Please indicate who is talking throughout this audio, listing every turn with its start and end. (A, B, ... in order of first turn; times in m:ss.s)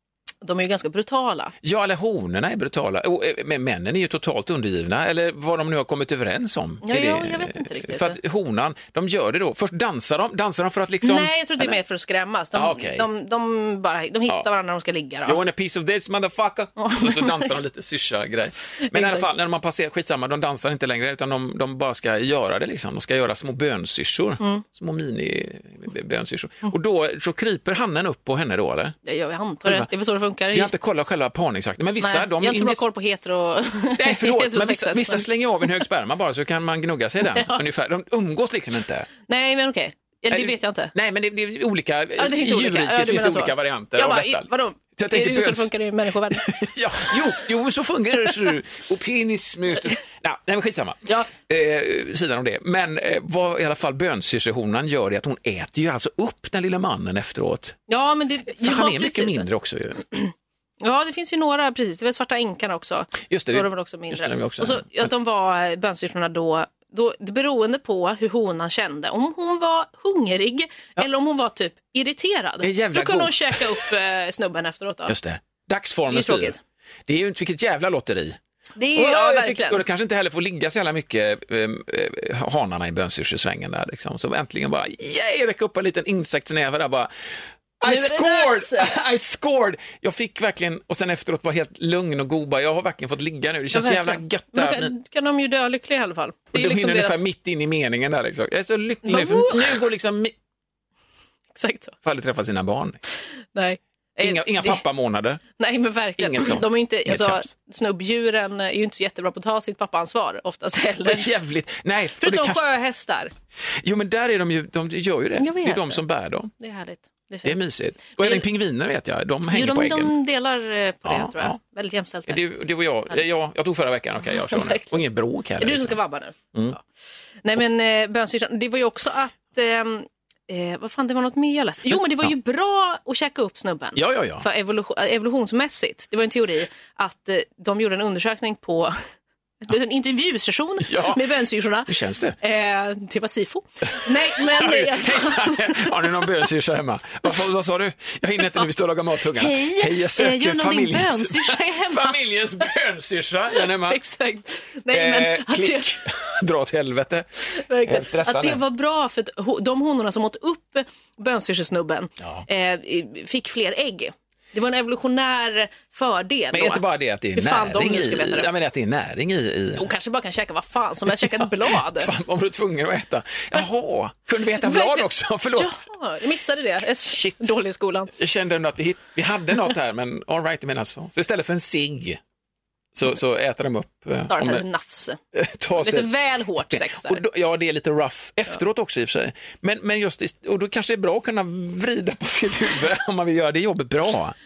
0:00.4-0:01.5 A
0:01.6-0:11.8 B
0:06.8-0:08.2 A
0:11.0-0:15.4 A
0:12.5-0:13.1 B
0:15.3-0:29.0 B
0:16.8-0:17.6 A
0:18.8-0:19.3 A
0:29.0-0:30.7 A
0:29.6-0:29.9 B
0:30.5-0:32.8 B
0:32.0-0:35.8 A
0:34.0-0:39.1 B
0:37.3-0:37.6 A
0:39.3-0:40.9 A
0:40.3-0:45.7 B
0:42.2-0:46.5 A
0:46.3-0:57.8 B
0:57.9-0:59.5 A
0:58.5-1:00.0 B
1:00.1-1:15.2 A
1:03.3-1:05.1 B
1:12.6-1:13.9 B
1:15.1-1:18.4 B
1:16.1-1:16.6 A
1:18.8-1:19.8 A
1:18.9-1:27.1 B
1:27.8-1:34.9 B
1:27.8-1:28.9 A
1:33.7-1:37.2 A
1:36.5-1:40.4 B
1:39.0-1:39.8 A
1:41.5-1:42.0 A
1:42.0-1:43.0 B
1:43.5-1:44.8 A
1:44.2-1:45.4 B
1:45.6-1:51.3 A
1:46.2-1:47.5 B
1:51.0-1:52.6 B
1:52.2-1:53.3 A
1:53.7-1:56.5 B
1:55.4-1:56.0 A
1:56.6-1:57.6 A
1:57.4-2:00.2 B
1:58.1-1:58.5 A
1:59.5-2:02.4 A
2:01.0-2:01.6 B
2:02.3-2:06.0 B
2:04.3-2:05.0 A
2:05.6-2:06.8 A
2:07.4-2:19.0 A
2:11.9-2:12.3 B
2:14.0-2:14.4 B
2:19.6-2:26.4 A
2:20.8-2:22.4 B
2:24.0-2:34.0 B
2:28.4-2:28.7 A
2:29.4-2:32.2 A
2:33.5-2:36.1 A
2:34.9-2:38.6 B
2:37.5-2:48.5 A
2:46.5-2:49.9 B
2:49.8-2:52.1 A
2:51.1-2:55.8 B
2:54.5-2:58.1 A
2:57.0-2:57.6 B
2:58.1-3:02.2 B
3:03.0-3:04.6 B
3:04.3-3:05.2 A
3:05.3-3:14.4 B
3:05.8-3:07.2 A